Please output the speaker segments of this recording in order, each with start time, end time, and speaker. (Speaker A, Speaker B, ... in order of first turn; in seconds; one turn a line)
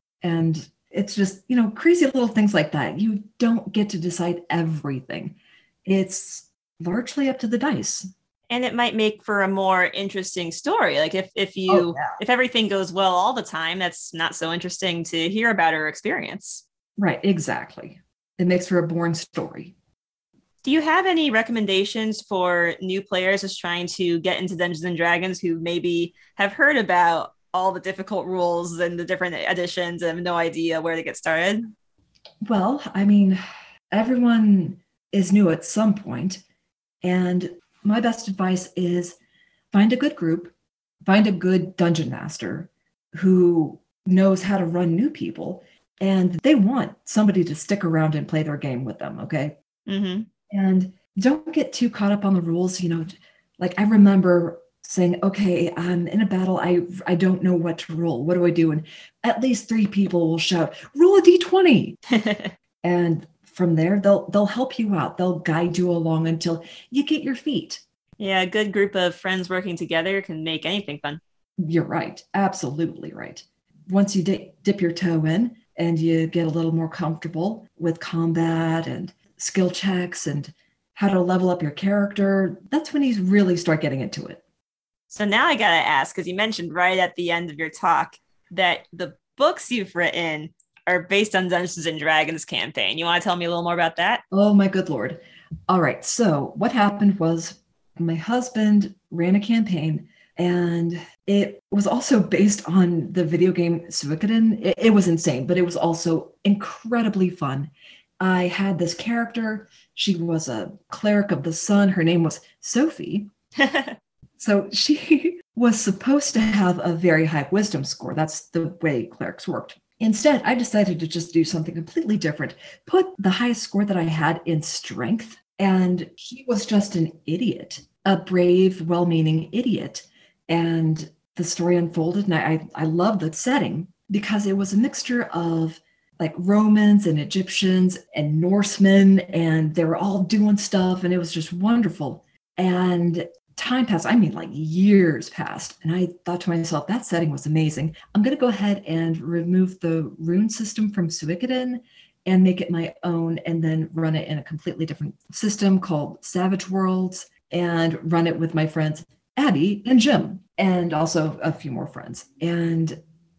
Speaker A: 0.2-8.1
Speaker B: 8.5-16.6
Speaker A: 11.7-12.1
Speaker A: 17.0-19.7
Speaker B: 20.6-31.7
Speaker A: 32.4-33.4
Speaker A: 33.9-36.4
Speaker A: 37.0-39.2
Speaker A: 39.7-40.5
Speaker A: 41.0-49.5
Speaker B: 49.9-50.3
Speaker A: 50.5-62.0
Speaker B: 62.1-62.5
Speaker A: 62.8-67.8
Speaker B: 68.2-71.2
Speaker A: 71.6-84.4
Speaker B: 85.1-94.2
Speaker A: 94.3-113.3
Speaker B: 113.6-114.0
Speaker A: 114.4-163.0